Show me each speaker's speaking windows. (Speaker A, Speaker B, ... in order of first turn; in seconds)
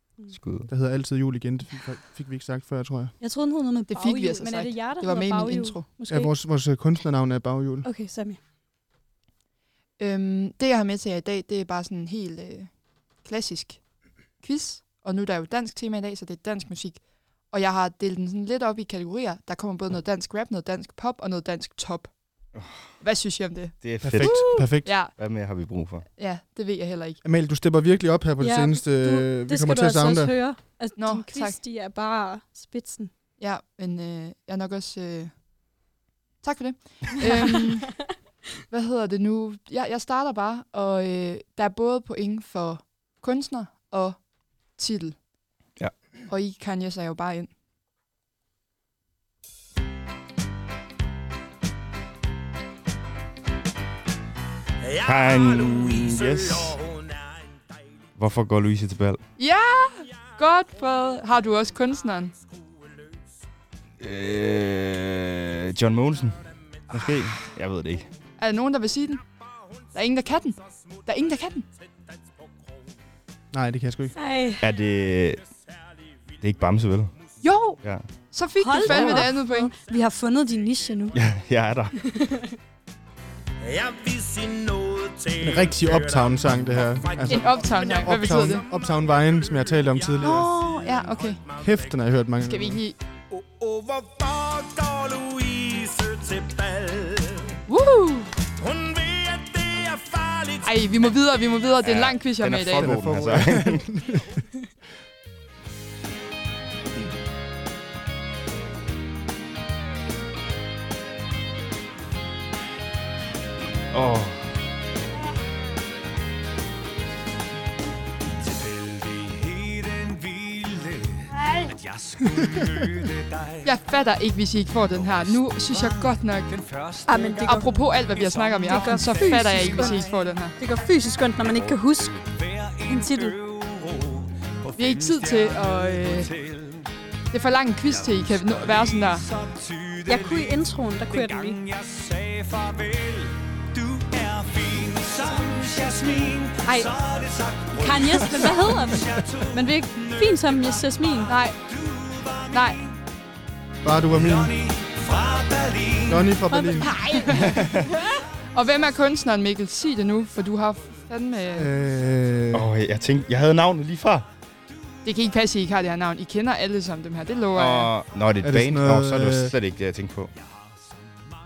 Speaker A: 0.3-0.7, 22.6-22.9, 23.8-26.1, 55.0-56.8, 58.2-59.2, 64.0-68.1, 74.6-75.4, 76.4-77.1, 81.1-82.0, 101.8-103.8, 113.9-114.5, 157.3-157.9, 162.5-164.3, 167.5-170.3
Speaker B: 0.7-3.2, 6.1-7.9, 24.0-24.9, 27.2-30.5, 73.5-74.1, 78.9-79.2, 85.4-90.5, 91.6-92.8, 102.8-104.3, 153.8-154.6, 156.1-156.9, 161.6-162.7, 168.4-169.5
Speaker C: 3.2-6.4, 7.8-8.4, 24.3-24.6, 28.4-33.1, 74.2-74.6, 78.6-81.2, 82.0-82.6, 127.1-127.7, 128.6-132.3, 132.8-133.4, 140.1-141.6, 146.7-146.9, 147.8-151.4, 156.5-157.5
Speaker D: 3.9-5.8, 10.0-12.7, 13.2-13.8, 14.4-22.1, 23.0-25.1, 26.2-27.2, 31.0-31.6, 33.4-35.3, 36.4-38.0, 38.7-44.2, 44.7-45.2, 46.3-47.5, 59.4-62.3, 68.4-69.2, 69.9-71.7, 77.4-79.7, 87.3-88.7, 90.2-91.4, 92.4-93.0, 97.7-98.3, 100.6-102.9, 123.6-126.5, 127.4-130.6, 134.8-136.3, 137.3-139.2, 151.3-151.6, 152.5-152.8, 157.0-157.7, 158.5-161.7, 165.1-167.9
Speaker E: 54.8-57.1, 83.6-87.3, 93.6-97.5, 98.6-100.7, 118.4-123.7, 125.0-130.1, 131.4-136.9, 138.1-152.9, 154.1-156.4